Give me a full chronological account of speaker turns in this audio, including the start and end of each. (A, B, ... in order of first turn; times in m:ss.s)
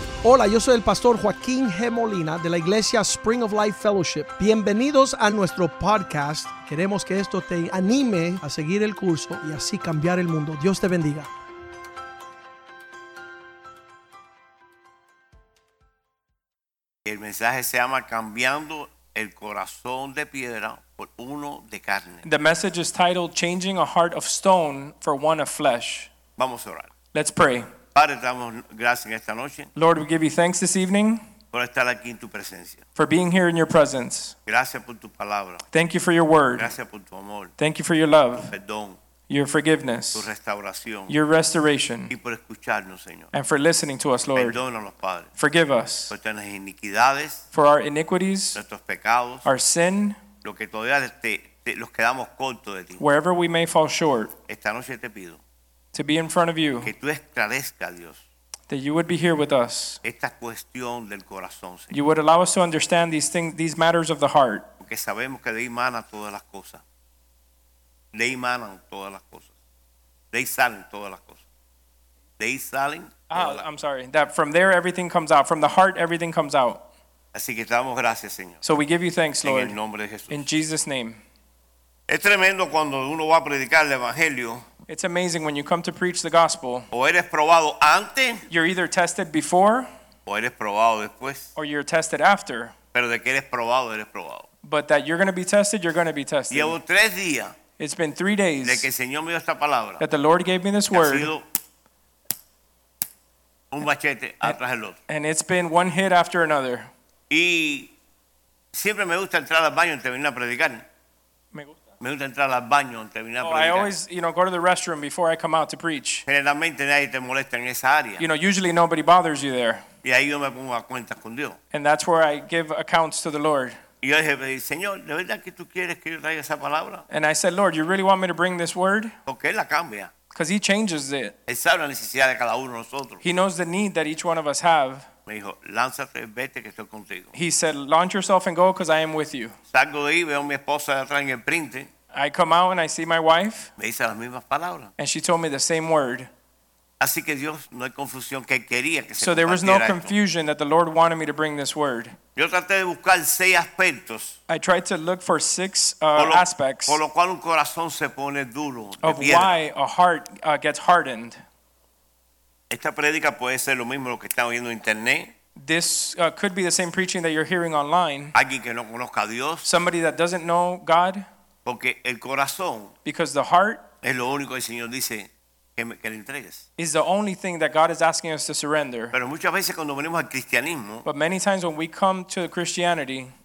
0:00.2-0:11.3 A
0:17.0-0:22.2 B
0:22.2-0:26.1 C
0:26.4-0:26.9 B
0:27.1-0:27.7 C
0:27.9-0:29.7 B
0:29.8-0:31.2 C
0:31.5-0:32.8 B
0:33.0-0:34.3 C
0:34.4-0:35.6 B
0:35.7-0:36.7 C
0:36.6-0:37.5 B
0:37.6-0:38.5 C
0:38.4-0:39.0 B
0:39.3-0:40.3 C
0:40.1-0:41.1 B
0:41.1-0:42.1 C
0:42.1-0:43.3 B
0:43.3-0:44.6 C
0:44.3-0:45.3 B
0:45.4-0:46.1 C
0:46.1-0:47.4 B
0:47.5-0:48.6 C
0:48.5-0:49.4 B
0:49.4-0:50.2 C
0:50.4-0:53.0 B
0:53.0-0:54.3 C
0:54.5-0:55.4 B
0:55.9-0:56.9 C
0:56.8-0:58.2 B
0:58.7-1:00.0 C
1:00.0-1:01.9 B
1:01.9-1:04.7 C
1:04.8-1:06.8 B
1:08.1-1:09.5 B
1:10.3-1:11.4 B
1:12.4-1:13.6 B
1:13.3-1:16.8 C
1:17.3-1:18.6 B
1:18.6-1:19.7 C
1:19.4-1:20.4 B
1:20.3-1:21.2 C
1:22.1-1:24.6 B
1:24.9-1:26.9 C
1:26.9-1:28.4 B
1:28.5-1:29.9 C
1:30.2-1:31.5 B
1:31.6-1:32.7 C
1:32.9-1:34.4 B
1:34.6-1:36.8 C
1:36.5-1:37.5 B
1:37.8-1:38.8 C
1:38.6-1:40.0 B
1:40.0-1:41.3 C
1:40.9-1:41.4 B
1:43.7-1:45.0 B
1:45.1-1:46.9 C
1:47.3-1:47.9 B
1:48.7-1:50.8 B
1:52.0-1:53.9 B
1:53.4-1:56.2 C
1:56.3-1:58.2 B
1:58.2-1:59.8 C
2:00.0-2:01.6 B
2:01.7-2:03.8 C
2:04.0-2:07.0 B
2:07.1-2:09.1 C
2:09.2-2:10.1 B
2:10.3-2:11.4 C
2:11.5-2:13.2 B
2:13.2-2:15.1 C
2:15.3-2:17.3 B
2:17.3-2:19.6 C
2:19.7-2:21.9 B
2:22.1-2:23.7 C
2:23.8-2:24.9 B
2:25.0-2:26.3 C
2:27.0-2:30.1 B
2:29.2-2:32.2 C
2:32.4-2:34.4 B
2:34.5-2:37.0 C
2:36.2-2:39.5 B
2:39.0-2:41.4 C
2:42.7-2:45.3 B
2:45.6-2:48.3 C
2:48.3-2:49.6 B
2:49.6-2:51.2 C
2:51.6-2:52.9 B
2:53.0-2:53.8 C
2:54.0-2:56.6 B
2:56.8-2:59.1 C
2:59.1-3:01.0 B
3:01.0-3:03.3 C